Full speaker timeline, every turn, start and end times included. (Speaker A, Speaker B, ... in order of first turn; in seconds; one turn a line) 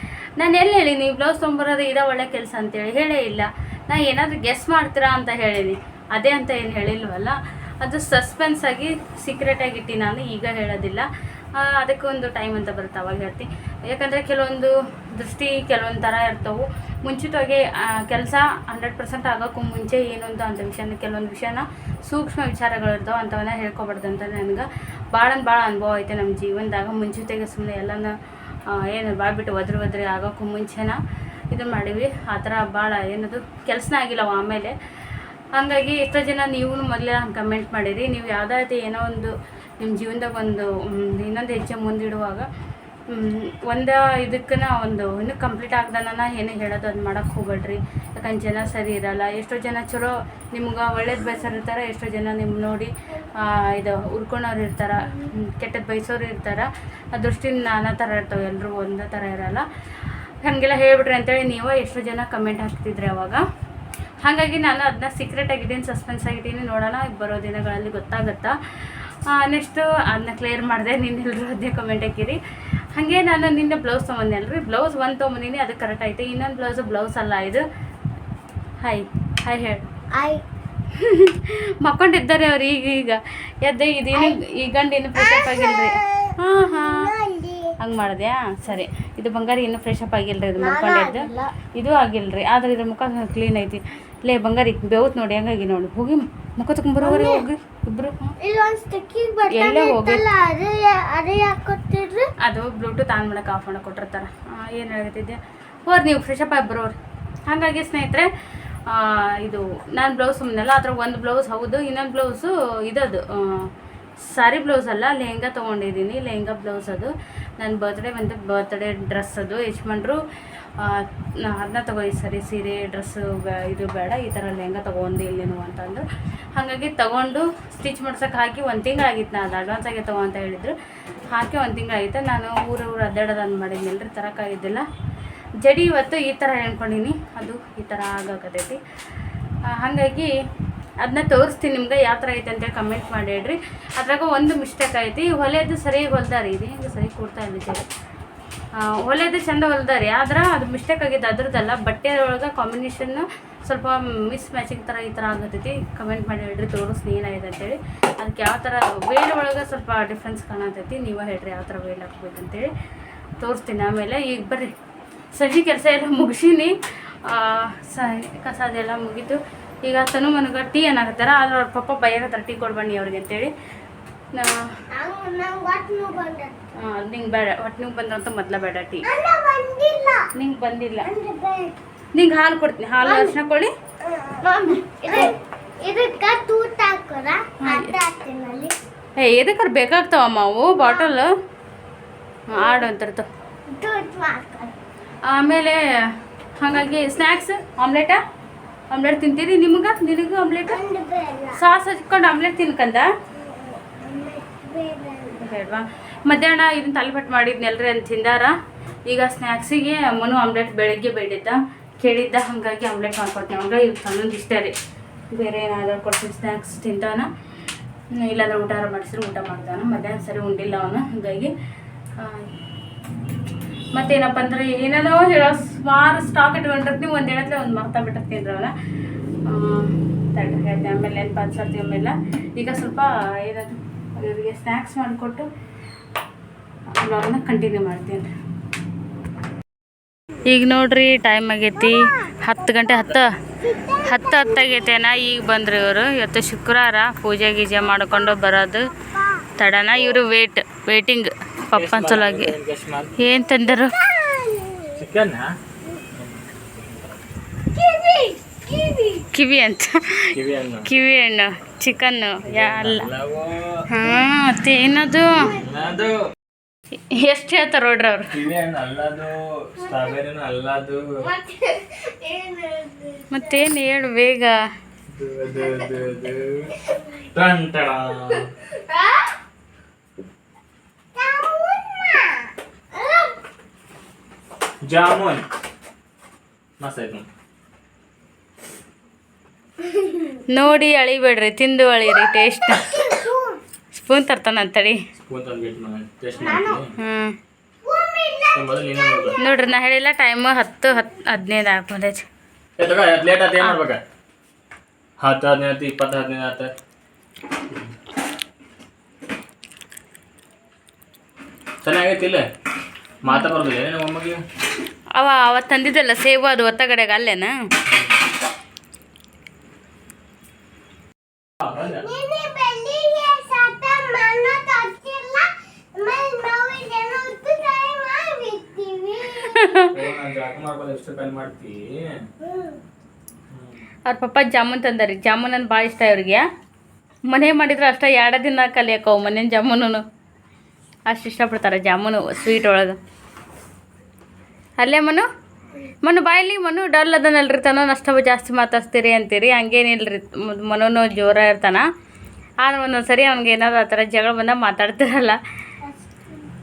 Speaker A: 0.4-28.1
Speaker A: 28.7-31.0
Speaker A: 31.5-34.7
Speaker A: 35.5-42.5
Speaker A: 43.1-59.6
Speaker A: 60.4-63.4
Speaker A: 64.2-72.4
Speaker A: 72.9-77.6
Speaker A: 78.8-79.8
Speaker B: 80.1-80.4
Speaker A: 80.9-87.1
Speaker B: 85.1-87.7
Speaker A: 87.8-98.3
Speaker B: 90.6-91.5
Speaker B: 97.0-97.4
Speaker B: 98.4-102.3
Speaker A: 99.5-100.2
Speaker A: 102.4-107.0
Speaker A: 107.5-108.3
Speaker A: 108.9-113.7
Speaker A: 114.2-120.2
Speaker A: 120.8-126.0
Speaker A: 126.5-130.7
Speaker A: 131.3-134.8
Speaker A: 135.6-138.8
Speaker A: 139.7-140.3
Speaker A: 141.0-147.9
Speaker A: 148.8-162.7
Speaker A: 163.4-164.7
Speaker A: 165.3-173.5
Speaker A: 174.3-174.6
Speaker B: 174.9-176.6
Speaker A: 176.8-179.1
Speaker B: 179.0-180.3
Speaker A: 180.3-181.1
Speaker B: 181.0-181.8
Speaker A: 182.1-183.7
Speaker B: 183.0-183.3
Speaker B: 184.0-188.7
Speaker A: 184.7-185.3
Speaker A: 187.6-187.9
Speaker A: 189.2-191.3
Speaker B: 190.8-191.1
Speaker A: 192.5-193.3
Speaker B: 192.6-192.8
Speaker B: 193.7-194.7
Speaker A: 195.2-195.8
Speaker A: 196.6-198.2
Speaker A: 198.9-200.8
Speaker B: 200.7-201.6
Speaker A: 201.5-203.1
Speaker B: 203.4-205.4
Speaker A: 205.3-208.5
Speaker A: 209.1-214.7
Speaker A: 215.3-217.3
Speaker A: 218.1-221.5
Speaker A: 222.2-222.5
Speaker A: 223.9-228.7
Speaker A: 229.4-235.5
Speaker A: 236.9-238.3
Speaker A: 240.5-243.4
Speaker B: 243.6-244.9
Speaker A: 244.0-248.9
Speaker B: 249.1-249.4
Speaker A: 249.6-252.5
Speaker C: 251.7-253.1
Speaker A: 253.2-254.0
Speaker B: 253.9-254.9
Speaker C: 255.0-255.5
Speaker C: 256.1-256.4
Speaker B: 257.7-259.3
Speaker A: 259.3-260.3
Speaker C: 260.3-260.9
Speaker A: 260.8-263.0
Speaker C: 262.4-263.8
Speaker A: 263.9-265.5
Speaker B: 265.4-265.7
Speaker C: 265.6-266.2
Speaker A: 267.1-268.3
Speaker C: 268.3-271.0
Speaker B: 271.2-273.6
Speaker A: 273.3-274.6
Speaker C: 275.1-276.7
Speaker B: 276.9-277.2
Speaker C: 277.3-278.5
Speaker B: 278.9-279.2
Speaker B: 281.1-283.3
Speaker C: 284.8-285.4
Speaker C: 286.8-287.2
Speaker B: 289.8-290.4
Speaker A: 290.5-293.0
Speaker B: 292.2-293.6
Speaker A: 293.9-295.0
Speaker C: 295.2-296.9
Speaker B: 296.4-296.8
Speaker A: 297.0-297.4
Speaker B: 297.8-299.6
Speaker C: 298.5-299.4
Speaker A: 299.4-302.2
Speaker C: 302.8-304.0
Speaker C: 305.2-306.7
Speaker C: 311.8-312.5
Speaker C: 313.2-314.4
Speaker A: 315.1-317.6
Speaker C: 321.6-322.1
Speaker B: 322.0-329.7
Speaker A: 329.4-329.9
Speaker C: 329.9-332.2
Speaker B: 332.4-332.8
Speaker C: 333.5-333.8
Speaker A: 334.1-336.4
Speaker A: 337.3-340.0
Speaker A: 341.1-343.0
Speaker A: 344.8-345.3
Speaker A: 346.0-351.8
Speaker A: 352.6-355.4
Speaker B: 355.8-356.4